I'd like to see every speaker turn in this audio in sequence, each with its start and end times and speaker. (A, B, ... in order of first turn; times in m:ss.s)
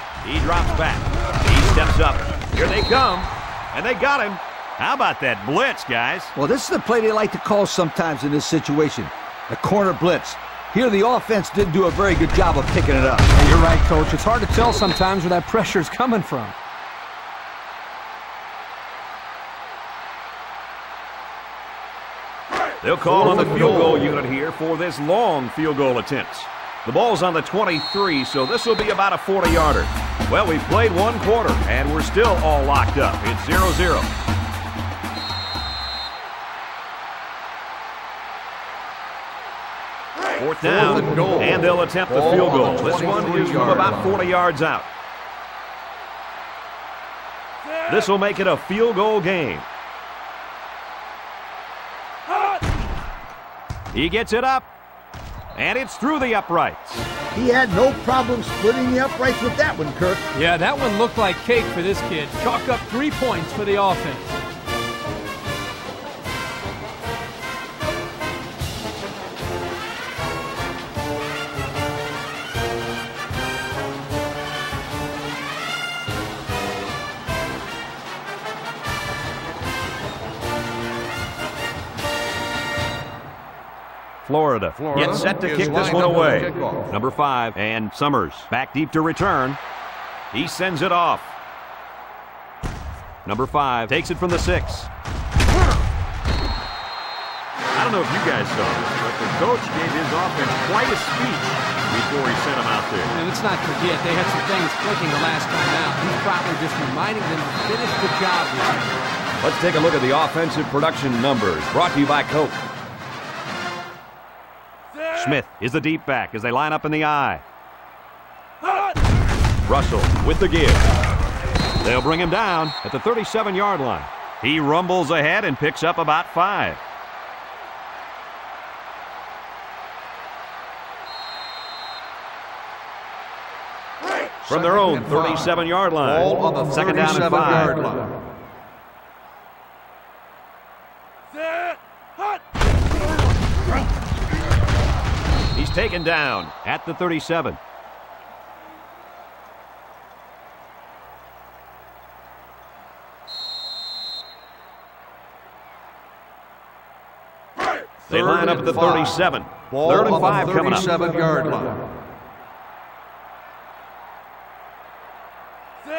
0:00.2-0:06.3 A
0:06.4-0:13.3 B
0:13.4-0:16.6 C
0:22.8-0:34.1 A
0:23.0-0:24.1 D
0:40.4-0:44.9 A
0:40.6-0:44.2 D
0:47.9-0:49.7 A
0:53.9-0:54.7 A
0:55.6-0:57.1 A
0:57.3-1:00.2 B
1:00.3-1:04.4 C
1:24.2-1:29.6 A
1:24.8-1:26.9 D
1:30.3-1:31.4 A
1:33.2-1:34.9 A
1:37.7-1:43.1 A
1:43.1-1:49.0 C
1:49.4-1:52.6 A
1:55.1-1:57.4 A
1:59.7-2:00.8 A
2:01.8-2:06.8 A
2:14.5-2:17.8 A
2:14.5-2:18.2 D
2:25.5-2:27.6 A
2:38.1-2:41.9 D
2:38.1-2:40.9 A